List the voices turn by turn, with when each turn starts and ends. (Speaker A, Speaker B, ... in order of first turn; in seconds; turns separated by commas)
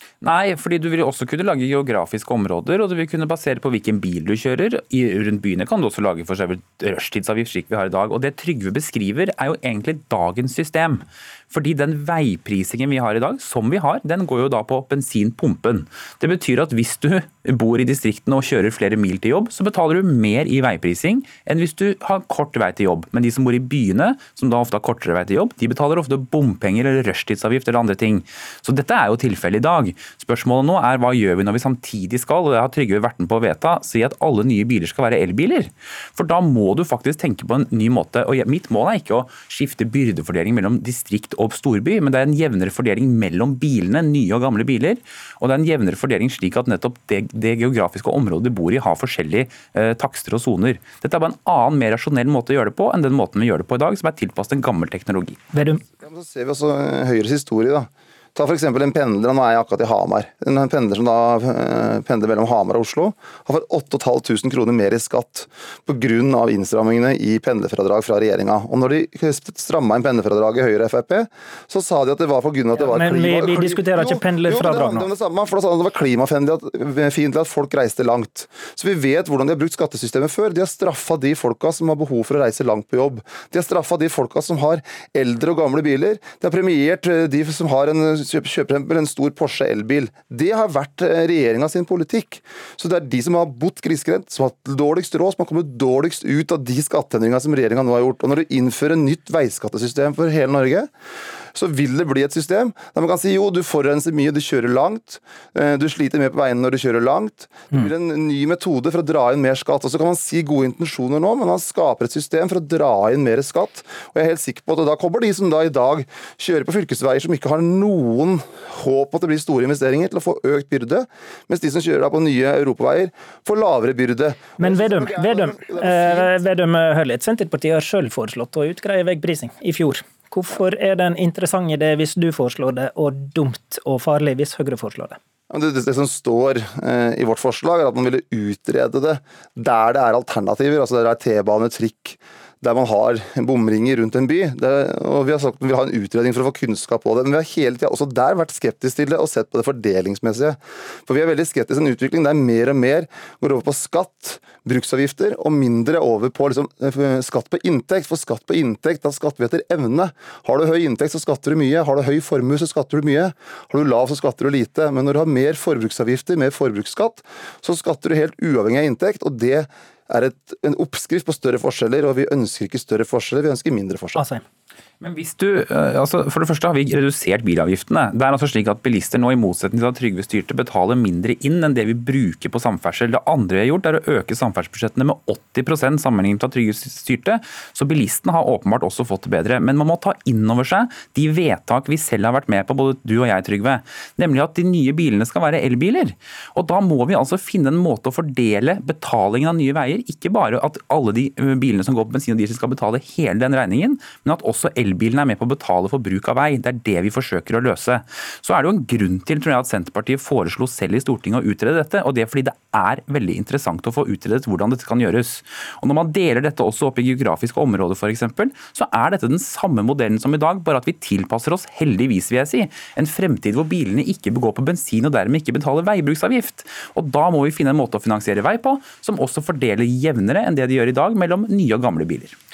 Speaker A: 0.2-55.4, Speaker B: 55.5-55.8, Speaker C: 56.0-100.9, Speaker B: 72.8-75.1, Speaker C: 101.5-126.3, Speaker B: 124.6-135.2, Speaker C: 135.5-174.2, Speaker B: 174.2-174.4, Speaker A: 175.0-232.3